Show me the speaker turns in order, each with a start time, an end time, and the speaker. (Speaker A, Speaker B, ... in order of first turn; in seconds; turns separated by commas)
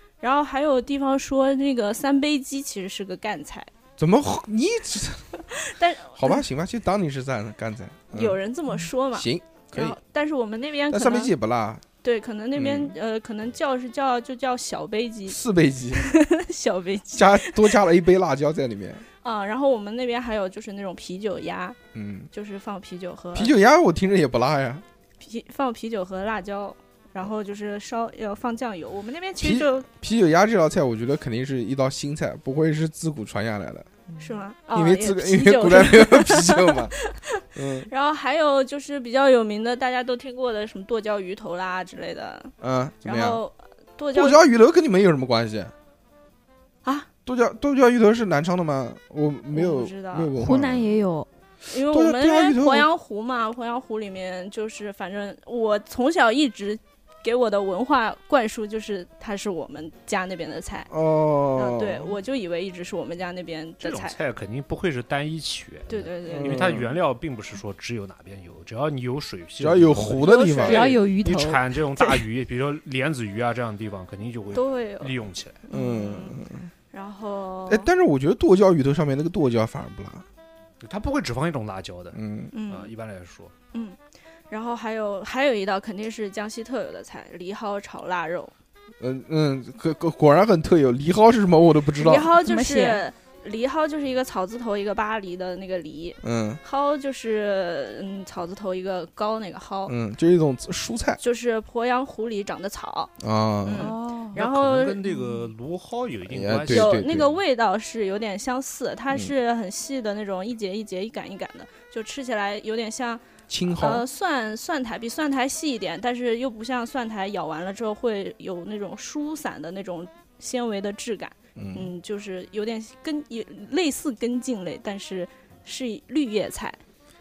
Speaker A: 0.2-3.7, Speaker B: 4.0-5.3, Speaker A: 5.5-6.4, Speaker B: 6.2-8.4, Speaker A: 8.1-11.3, Speaker B: 9.1-10.0, Speaker B: 10.9-11.8, Speaker A: 12.0-15.4, Speaker B: 12.6-12.9, Speaker B: 15.3-16.1, Speaker A: 15.9-17.8, Speaker B: 17.1-19.0, Speaker A: 19.2-21.8, Speaker B: 21.9-22.3, Speaker A: 22.3-23.5, Speaker B: 23.3-24.8, Speaker A: 25.2-29.9, Speaker B: 29.4-33.9, Speaker A: 34.2-44.4, Speaker B: 34.7-37.0, Speaker B: 37.5-37.9, Speaker B: 42.6-43.4, Speaker B: 44.1-45.7, Speaker B: 47.3-50.9, Speaker A: 49.5-50.3, Speaker C: 50.4-51.3, Speaker A: 51.7-60.9, Speaker B: 51.9-52.9, Speaker B: 60.9-62.2, Speaker A: 61.5-64.2, Speaker D: 63.8-75.6, Speaker A: 65.9-66.8, Speaker B: 66.3-66.9, Speaker B: 69.6-70.9, Speaker A: 70.2-71.0, Speaker C: 70.6-72.2, Speaker A: 74.5-75.1, Speaker A: 75.7-77.9, Speaker B: 75.7-76.7, Speaker B: 77.7-80.2, Speaker D: 80.8-83.5, Speaker B: 82.1-82.5, Speaker A: 82.5-82.9, Speaker A: 83.7-88.5, Speaker B: 89.0-92.3, Speaker A: 92.0-99.9, Speaker C: 92.4-93.0, Speaker B: 96.2-96.6, Speaker B: 99.9-101.2, Speaker A: 101.2-103.1, Speaker B: 103.2-103.9, Speaker A: 103.6-105.2, Speaker C: 103.8-104.4, Speaker D: 104.3-107.1, Speaker B: 106.3-107.3, Speaker A: 106.7-126.8, Speaker B: 113.5-114.0, Speaker B: 121.6-121.9